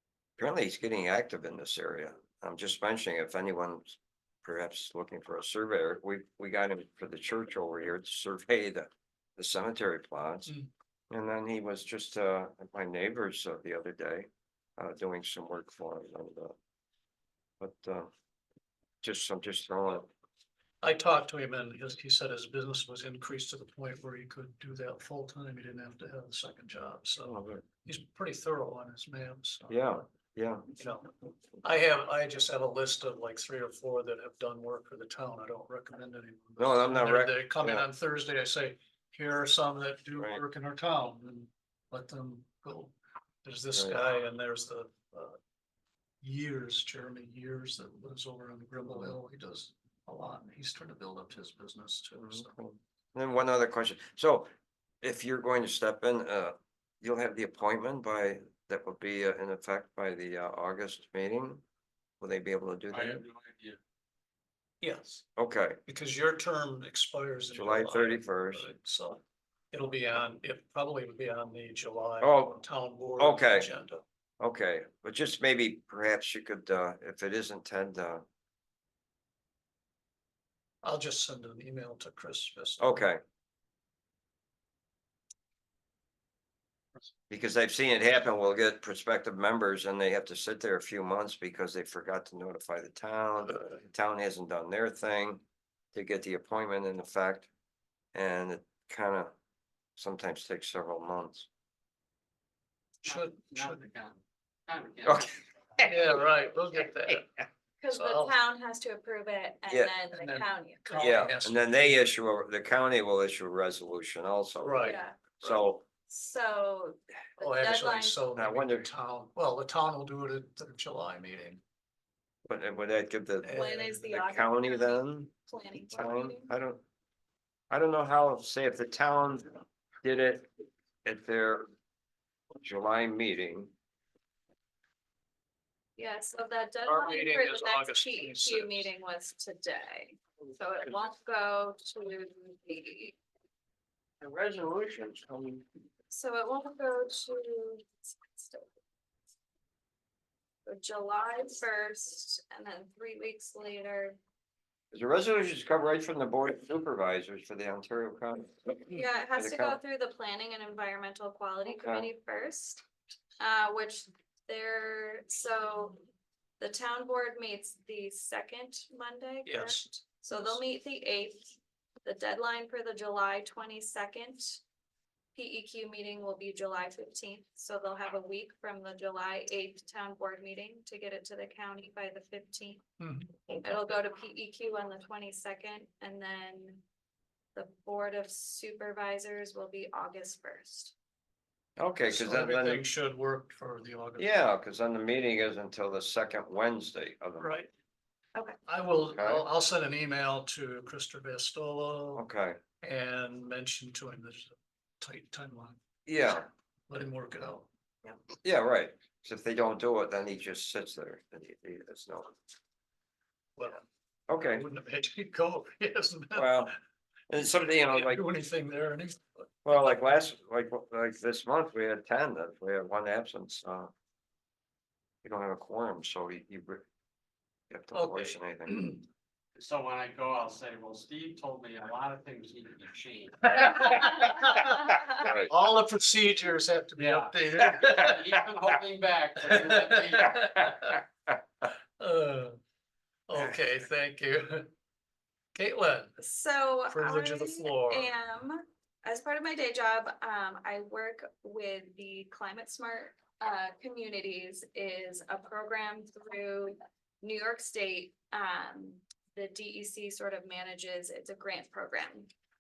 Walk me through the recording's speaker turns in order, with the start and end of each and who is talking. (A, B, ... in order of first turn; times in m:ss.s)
0:00.4-0:10.6 A
0:11.1-0:16.5 A
0:17.6-0:18.1 A
0:19.0-0:20.1 A
0:20.8-0:29.8 B
0:27.2-0:27.6 A
0:29.7-0:30.7 A
0:30.8-0:45.4 B
0:36.6-0:37.9 A
0:46.2-0:52.6 B
0:52.2-0:54.5 A
0:55.0-1:01.6 A
1:02.2-1:03.2 A
1:02.9-1:03.8 C
1:04.8-1:05.2 B
1:05.4-1:05.8 A
1:05.9-1:09.2 B
1:07.5-1:08.7 A
1:09.7-1:14.0 B
1:12.2-1:12.6 A
1:13.2-1:13.7 A
1:14.4-1:18.2 A
1:20.8-1:23.0 B
1:22.8-1:23.2 A
1:27.3-1:35.4 A
1:35.9-1:37.5 A
1:38.1-1:39.3 A
1:40.0-1:41.5 A
1:43.0-1:45.3 C
1:43.0-1:43.8 B
1:45.1-1:45.9 A
1:45.8-1:47.3 B
1:47.8-1:51.2 D
1:47.9-1:48.3 B
1:50.1-1:52.0 B
1:51.0-1:55.8 A
1:54.6-1:55.6 B
1:54.8-1:55.2 D
1:56.1-1:58.2 D
1:57.4-2:01.6 B
1:58.4-1:58.9 A
2:02.5-2:05.3 A
2:03.4-2:04.0 B
2:03.5-2:06.5 D
2:05.9-2:06.8 A
2:07.7-2:10.5 A
2:11.0-2:11.7 A
2:12.6-2:13.7 A
2:16.0-2:23.2 D
2:16.9-2:18.9 B
2:24.2-2:25.6 A
2:26.1-2:28.7 D
2:30.7-2:34.2 D
2:34.9-2:39.8 A
2:38.9-2:42.8 D
2:41.7-2:42.1 A
2:43.4-2:46.0 D
2:46.6-2:54.6 D
2:49.5-2:50.6 B
2:55.4-3:02.8 D
3:03.0-3:03.4 B
3:03.5-3:06.8 D
3:07.6-3:10.9 D
3:11.8-3:12.8 A
3:12.1-3:14.5 B
3:14.2-3:17.5 A
3:17.4-3:17.7 B
3:18.7-3:22.2 B
3:19.1-3:19.5 A
3:22.2-3:22.6 A
3:22.8-3:25.8 B
3:26.1-3:26.5 A
3:26.9-3:27.7 B
3:28.4-3:32.4 A
3:33.6-3:33.8 B
3:34.3-3:34.6 A
3:34.5-3:36.7 B
3:36.4-3:36.7 A
3:37.3-3:38.2 A
3:37.9-3:39.5 B
3:39.6-3:43.9 A
3:45.2-3:46.8 A
3:47.7-3:48.9 A
3:47.9-3:49.0 B
3:49.6-3:53.5 C
3:53.4-3:58.2 B
3:57.0-4:00.6 C
3:59.4-4:01.0 B
4:02.0-4:02.6 B
4:03.3-4:04.7 B
4:05.5-4:06.2 B
4:06.2-4:22.3 D
4:06.9-4:08.2 B